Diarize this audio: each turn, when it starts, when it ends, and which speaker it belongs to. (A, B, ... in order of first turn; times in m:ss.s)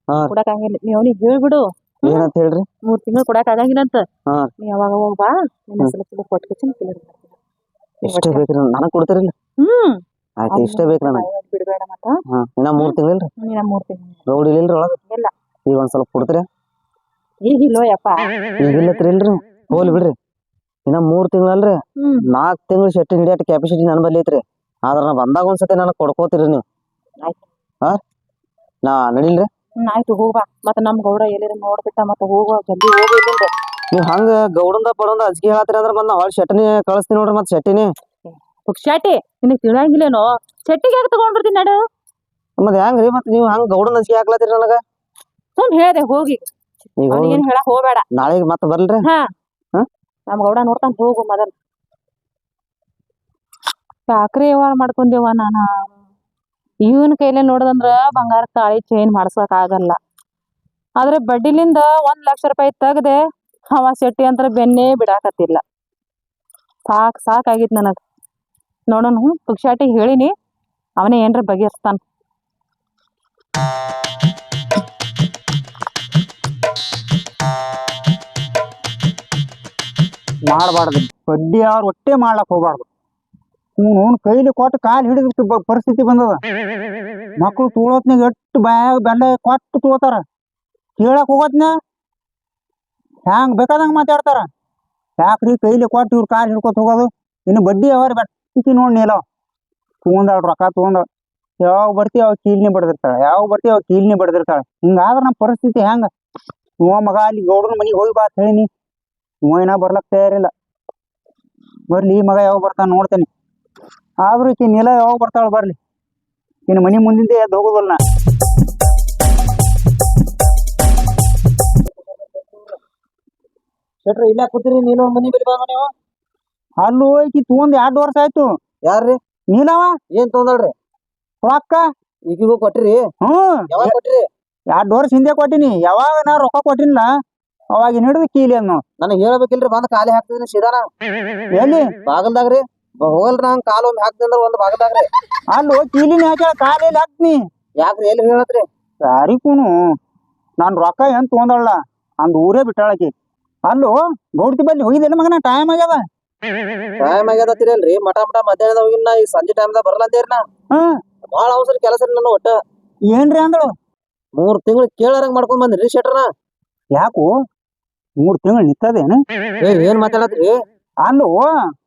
0:00.3-0:02.3 A
0:02.0-0:02.7 B
0:02.9-0:04.0 A
0:04.6-0:07.4 A
0:08.0-0:09.3 B
0:08.1-0:08.4 A
0:09.6-0:12.2 A
0:10.4-0:11.3 B
0:12.3-0:13.3 B
0:12.8-0:14.2 A
0:14.3-0:15.0 B
0:15.7-0:16.5 B
0:17.4-0:18.2 A
0:18.6-0:20.2 B
0:19.7-0:20.0 A
0:20.9-0:21.8 B
0:22.0-0:22.2 A
0:22.3-0:26.6 B
0:28.8-0:29.5 B
0:29.8-0:33.5 A
0:33.9-0:37.9 B
0:38.3-0:41.8 A
0:42.6-0:44.8 B
0:45.6-0:46.5 A
0:47.0-0:47.4 B
0:47.1-0:48.0 A
0:48.1-0:49.0 B
0:50.3-0:51.5 A
0:54.1-0:55.7 A
0:56.8-1:00.0 A
1:01.0-1:03.2 A
1:03.7-1:05.6 A
1:06.9-1:08.0 A
1:08.9-1:10.3 A
1:11.0-1:12.0 A
1:20.5-1:22.9 C
1:23.8-1:26.4 C
1:27.4-1:30.2 C
1:31.0-1:31.7 C
1:33.3-1:34.5 C
1:35.2-1:39.2 C
1:40.0-1:41.1 C
1:41.6-1:46.1 C
1:46.8-1:48.7 C
1:49.5-1:50.5 C
1:51.9-1:53.3 C
1:54.2-1:55.8 C
1:56.7-1:58.0 C
2:04.0-2:05.9 B
2:06.8-2:08.5 C
2:08.8-2:09.2 B
2:09.5-2:09.9 C
2:10.1-2:10.7 B
2:11.4-2:11.8 C
2:12.3-2:13.0 B
2:13.2-2:13.9 C
2:13.7-2:14.3 B
2:14.7-2:17.1 C
2:17.8-2:18.8 C
2:19.0-2:20.8 B
2:21.6-2:21.9 C
2:22.1-2:25.1 B
2:25.5-2:27.4 C
2:27.8-2:28.7 B
2:29.0-2:29.7 C
2:30.6-2:33.1 C
2:33.7-2:36.0 C
2:37.0-2:40.4 B
2:41.3-2:42.6 B
2:43.1-2:43.7 C
2:44.4-2:46.3 B
2:47.0-2:47.3 C
2:48.2-2:49.2 C
2:49.6-2:50.5 B
2:51.0-2:51.5 C